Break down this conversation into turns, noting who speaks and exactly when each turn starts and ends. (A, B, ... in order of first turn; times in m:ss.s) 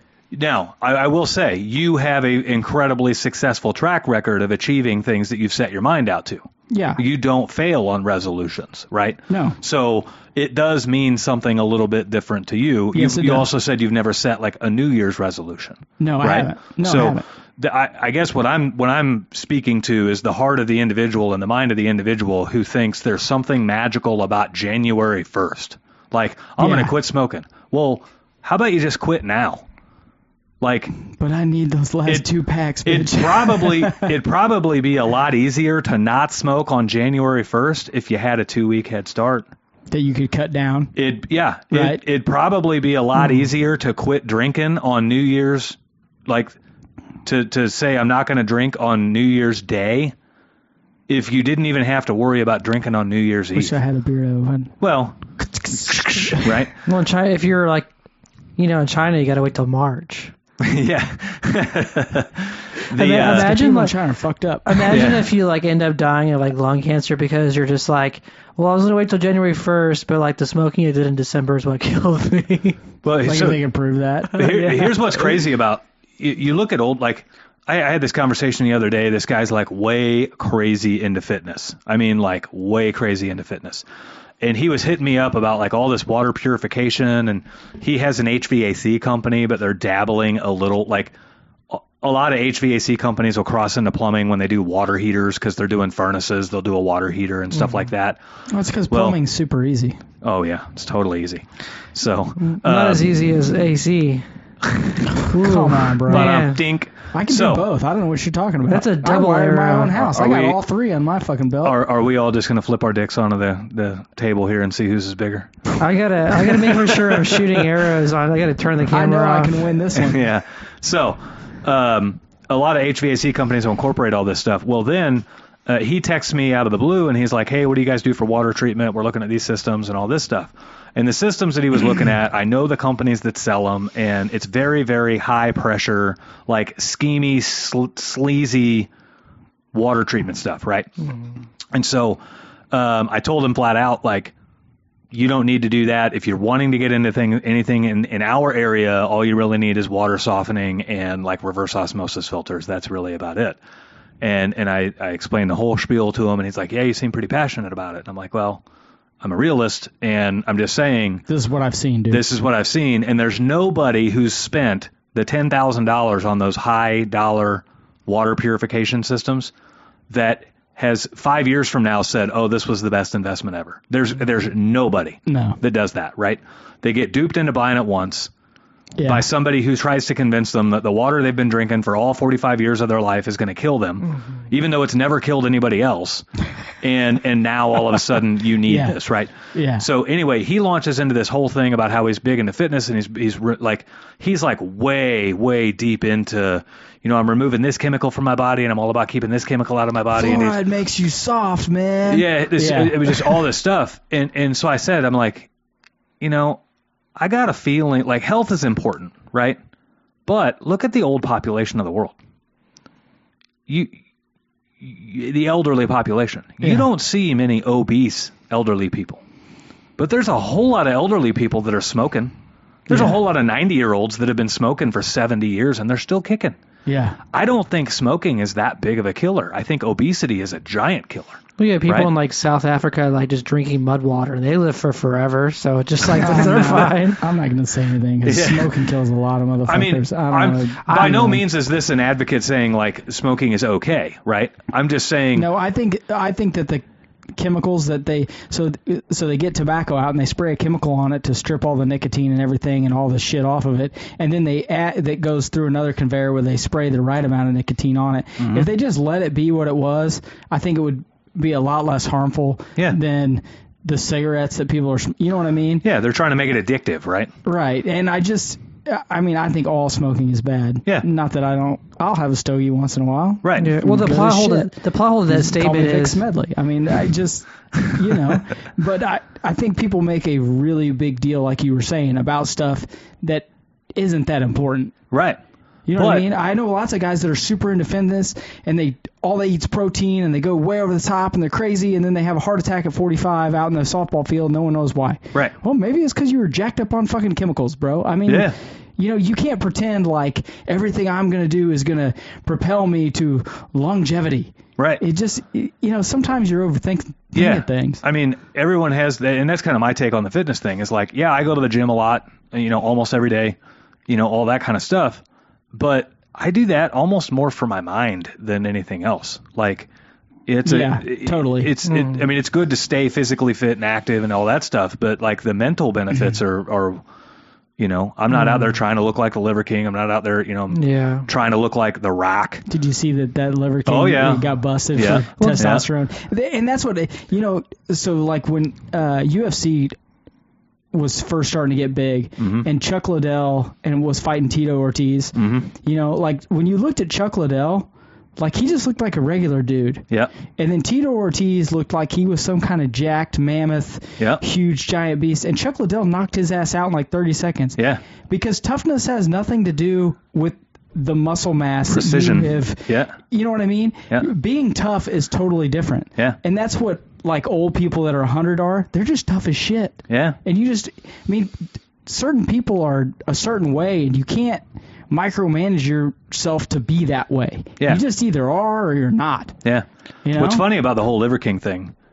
0:00.3-0:29.6 A
0:06.7-0:07.0 B
0:09.3-0:09.6 B
0:12.9-0:13.5 B
0:16.0-0:17.2 B
0:26.6-0:26.9 B
0:30.6-0:30.9 A
0:31.0-0:34.1 B
0:32.8-0:39.5 A
0:39.9-0:40.9 B
0:41.0-0:46.5 A
0:41.7-0:42.0 B
0:47.2-0:50.1 A
0:51.1-0:53.7 A
0:53.5-0:54.7 B
0:54.8-0:55.2 A
0:55.4-0:56.5 B
0:55.7-0:56.7 A
0:56.8-0:57.9 C
0:58.6-1:00.3 C
1:00.6-1:03.5 A
1:02.9-1:03.9 C
1:03.0-1:05.1 B
1:04.6-1:12.8 C
1:04.9-1:05.3 A
1:13.0-1:13.6 A
1:13.2-1:14.4 B
1:14.3-1:23.8 A
1:14.4-1:15.0 C
1:24.4-1:31.1 A
1:31.7-1:38.2 A
1:38.5-1:40.0 B
1:38.9-1:39.2 A
1:40.2-1:43.1 A
1:42.5-1:44.2 C
1:45.1-1:46.5 B
1:45.1-1:46.6 C
1:46.1-1:47.7 A
1:47.1-1:51.8 B
1:48.7-1:50.0 C
1:49.9-1:50.6 A
1:51.6-1:55.6 A
1:55.8-1:59.7 C
1:56.4-1:57.7 A
1:58.9-2:00.2 B
1:59.9-2:18.9 A
2:19.7-2:20.9 A
2:21.7-2:22.2 A
2:22.7-2:24.3 A
2:25.1-2:33.6 A
2:34.2-2:38.6 A
2:39.2-2:41.2 A
2:41.3-2:42.2 B
2:42.1-2:49.5 A
2:50.1-2:58.3 A
2:55.3-2:55.6 B
2:59.0-2:59.2 B
2:59.0-3:06.2 A
3:06.8-3:20.6 A
3:08.6-3:09.0 B
3:09.5-3:09.8 B
3:20.1-3:23.4 B
3:22.1-3:25.5 A
3:26.2-3:26.6 A
3:27.2-3:29.6 A
3:30.2-3:32.2 A
3:33.7-3:33.9 A
3:34.8-3:39.2 A
3:36.6-3:36.9 B
3:40.0-3:42.3 A
3:42.9-3:46.6 A
3:42.9-3:43.2 B
3:46.9-3:47.2 B
3:47.3-3:52.1 A
3:51.6-3:57.2 C
3:56.1-4:01.4 B
3:58.2-3:58.7 A
3:59.7-4:05.5 A
4:00.9-4:01.2 C
4:05.3-4:06.8 B
4:07.4-4:25.8 B
4:18.4-4:18.7 A
4:25.8-4:27.3 A
4:27.4-4:34.7 B
4:33.4-4:33.7 A
4:33.6-4:36.2 C
4:35.3-4:44.9 B
4:45.1-4:45.4 A
4:45.9-5:08.0 B
4:46.0-4:46.3 A
4:58.3-4:58.5 A
5:07.3-5:19.9 A
5:20.5-5:27.0 A
5:20.6-5:21.7 B
5:21.8-5:22.2 C
5:27.8-5:32.6 A
5:30.7-5:31.3 C
5:32.6-5:40.0 B
5:33.9-5:35.8 A
5:35.4-5:35.7 C
5:40.9-6:19.6 B
5:42.4-5:42.6 A
5:45.4-5:45.7 A
6:01.9-6:03.1 A
6:10.1-6:10.4 A
6:19.6-6:21.9 A
6:20.2-6:20.6 B